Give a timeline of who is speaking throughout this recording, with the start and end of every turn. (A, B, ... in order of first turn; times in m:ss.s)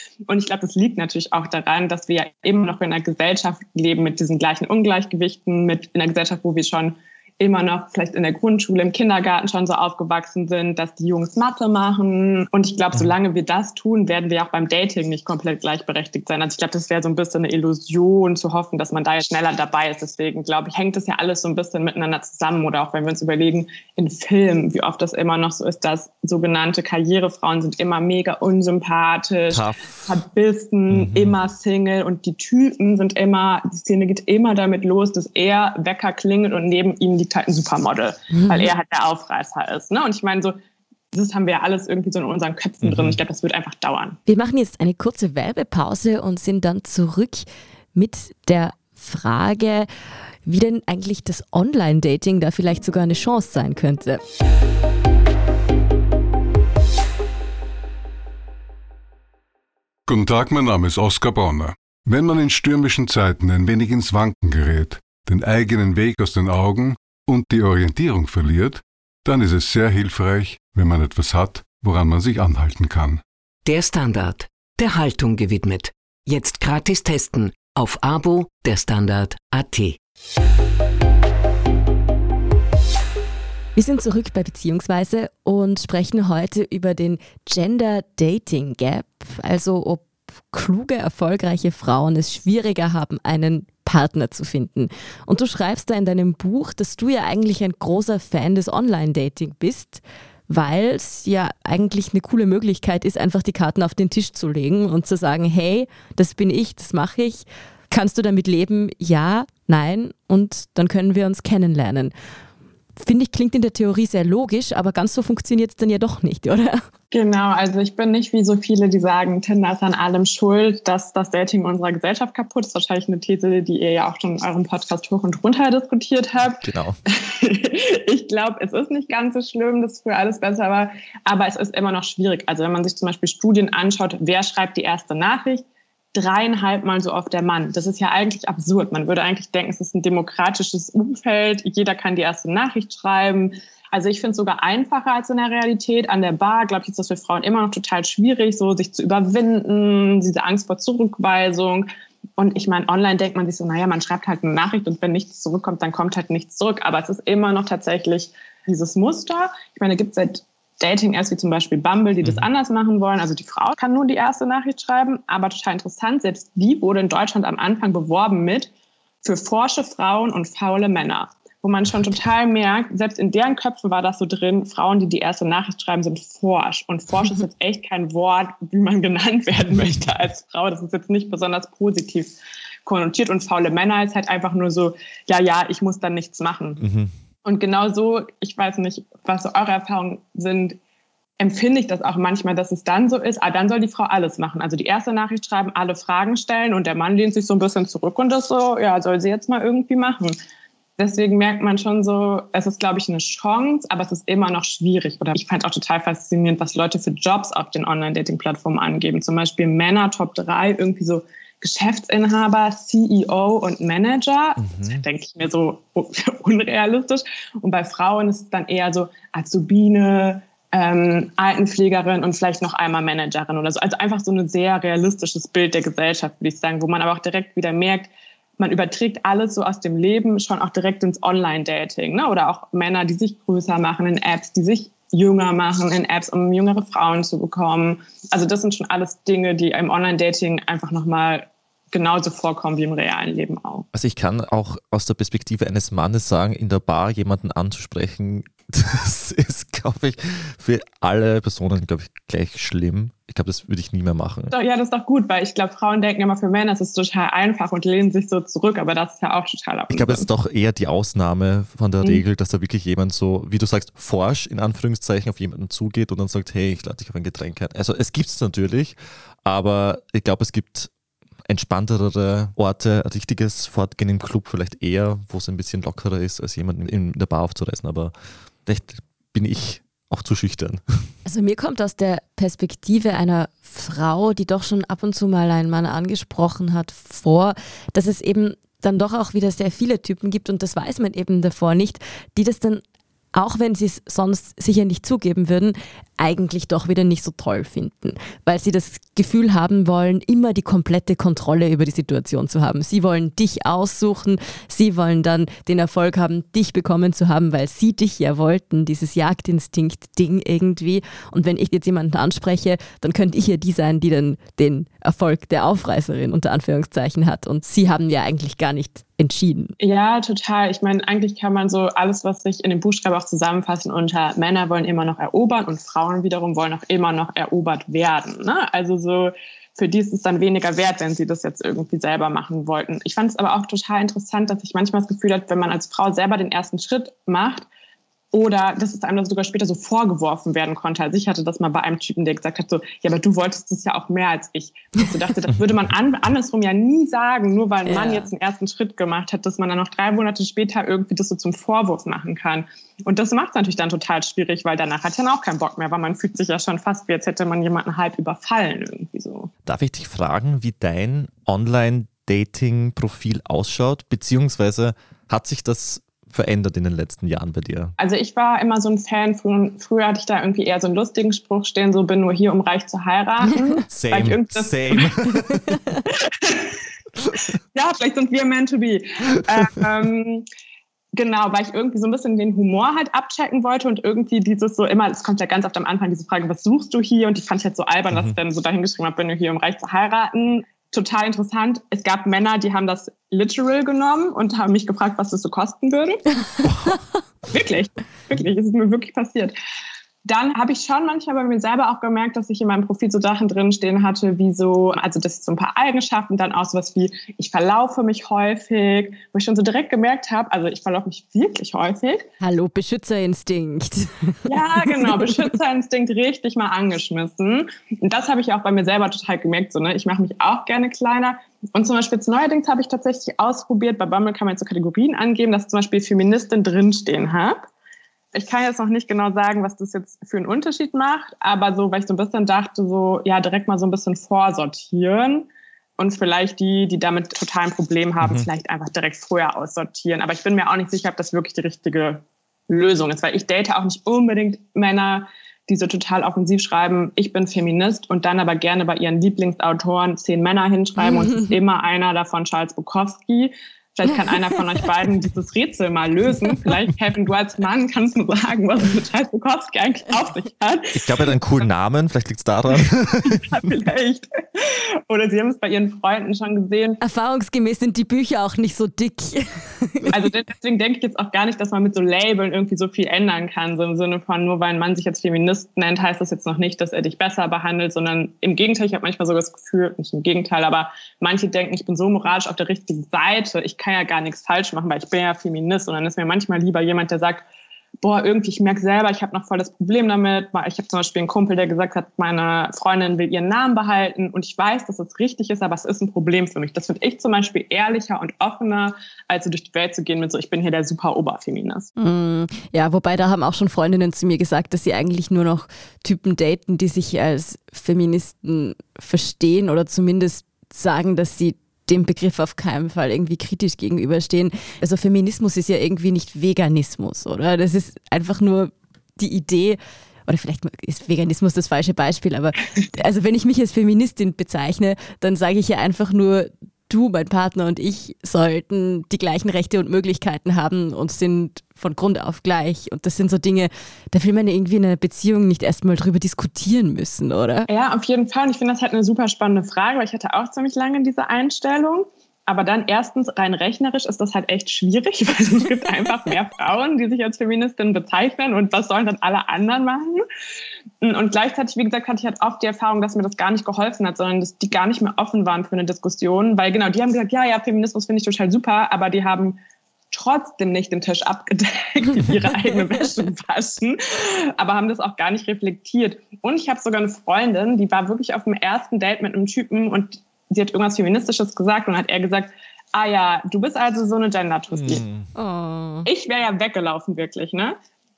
0:00.3-0:40.6 A
0:29.5-0:30.1 B
0:30.9-0:31.3 B
0:38.3-0:38.7 C
0:41.1-0:44.2 A
0:42.8-0:43.2 B
0:44.3-0:49.9 C
0:50.4-0:54.2 C
1:00.1-1:13.2 D
1:13.6-1:20.0 E
1:23.8-1:52.1 C
1:53.0-1:56.8 C
1:57.1-2:48.7 A
2:06.6-2:07.0 B
2:49.2-3:02.3 A
3:02.8-3:06.8 A
3:06.8-3:07.1 B
3:07.4-3:10.8 A
3:11.4-3:20.4 A
3:21.0-4:03.9 A
3:34.6-3:35.0 B
4:03.9-4:14.5 B
4:14.5-4:20.3 A
4:19.9-4:30.9 B
4:31.4-4:38.1 B
4:38.6-4:40.8 B
4:41.2-4:52.8 C
4:53.3-5:19.8 C
5:19.8-5:37.6 A
5:38.3-5:59.5 A
5:47.8-5:48.3 C
5:59.6-6:07.9 B
6:08.0-6:15.3 A
6:13.9-6:15.6 B
6:16.1-6:16.8 A
6:17.7-6:20.4 A
6:21.1-6:36.4 A
6:37.5-6:39.6 A
6:40.2-6:52.3 A
6:52.4-6:55.3 C
6:54.4-7:07.6 A
7:08.3-7:15.5 A
7:16.0-7:41.1 A
7:40.9-7:43.4 B
7:43.2-7:47.0 A
7:47.0-7:50.2 C
7:50.1-8:07.4 A
8:08.0-8:21.9 A
8:22.0-8:57.7 C
8:57.7-9:10.2 A
9:11.0-9:19.6 A
9:20.1-9:35.0 A
9:34.7-9:35.3 B
9:35.4-9:36.1 C
9:36.1-9:37.8 A